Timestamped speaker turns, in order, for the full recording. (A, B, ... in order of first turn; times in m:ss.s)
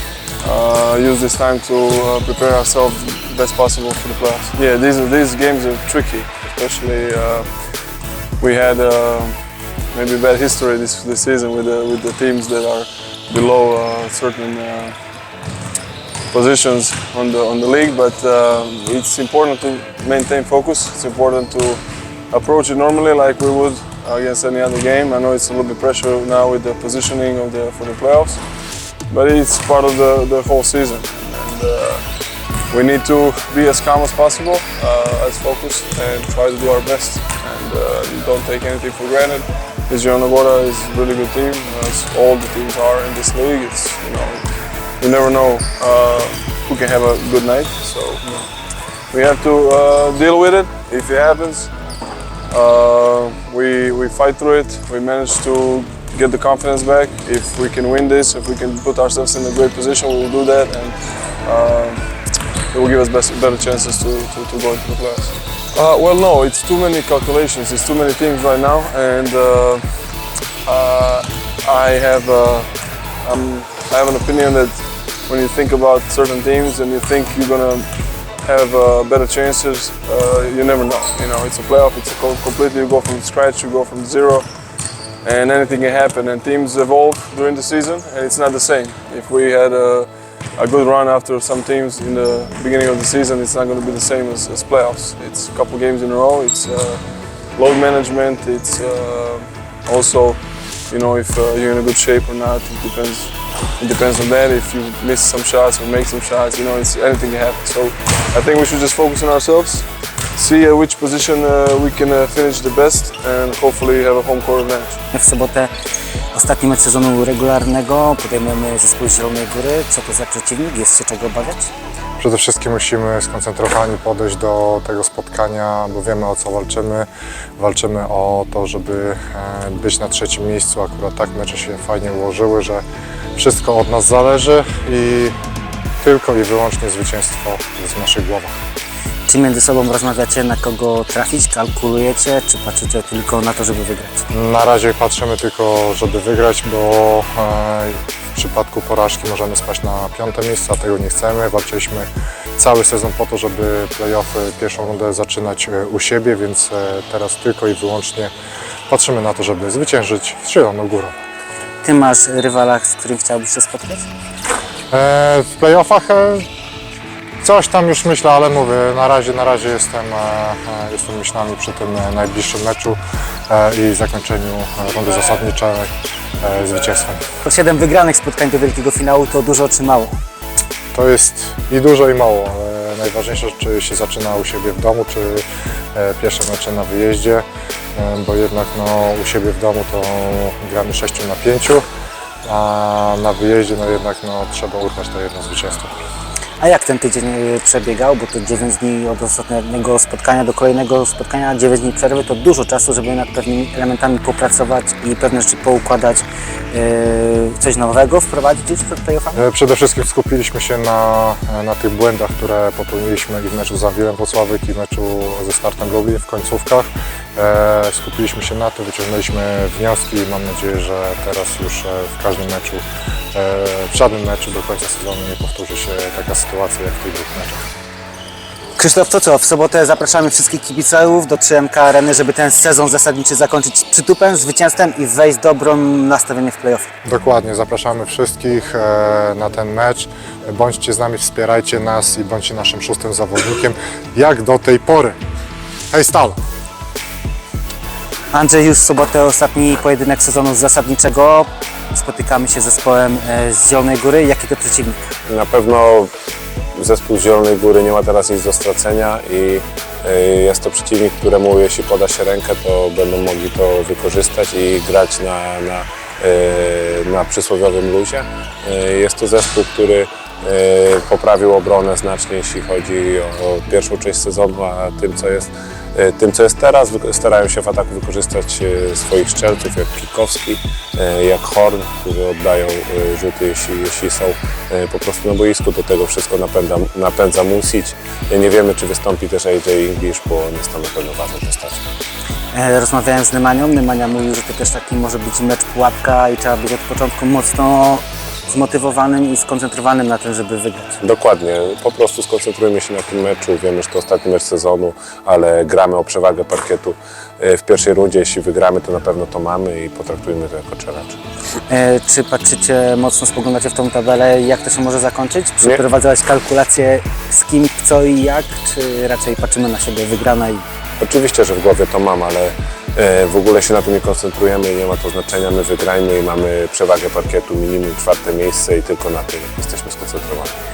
0:00.4-0:15.0 A
0:16.3-0:28.5 A
0:29.0-0:32.1 A
0:32.7-0:48.3 A
0:48.9-0:51.7 A
0:52.5-1:02.2 A
1:02.7-1:24.5 A
1:25.2-1:55.0 A
1:55.1-1:55.7 B
1:56.3-2:01.7 B
2:02.2-2:07.1 C
2:07.6-2:12.8 C
2:13.4-2:15.4 C
2:16.0-2:18.5 C
2:19.3-2:24.2 B
2:24.3-2:38.3 C
2:38.9-2:41.1 C
2:41.8-2:44.1 B
2:44.9-2:46.5 C
2:47.4-2:57.2 C
2:57.4-3:00.2 B
3:00.9-3:11.8 C
3:12.4-3:15.9 C
3:16.6-3:29.4 B
3:29.3-3:47.7 C
3:48.8-3:56.9 B
3:57.0-4:05.2 C
4:05.9-4:06.4 C
4:08.3-4:15.0 B
4:15.3-4:16.1 D
4:16.8-4:51.8 D
4:52.5-5:01.0 B
5:01.0-5:11.2 D
5:11.7-5:20.6 B
5:21.0-5:30.6 D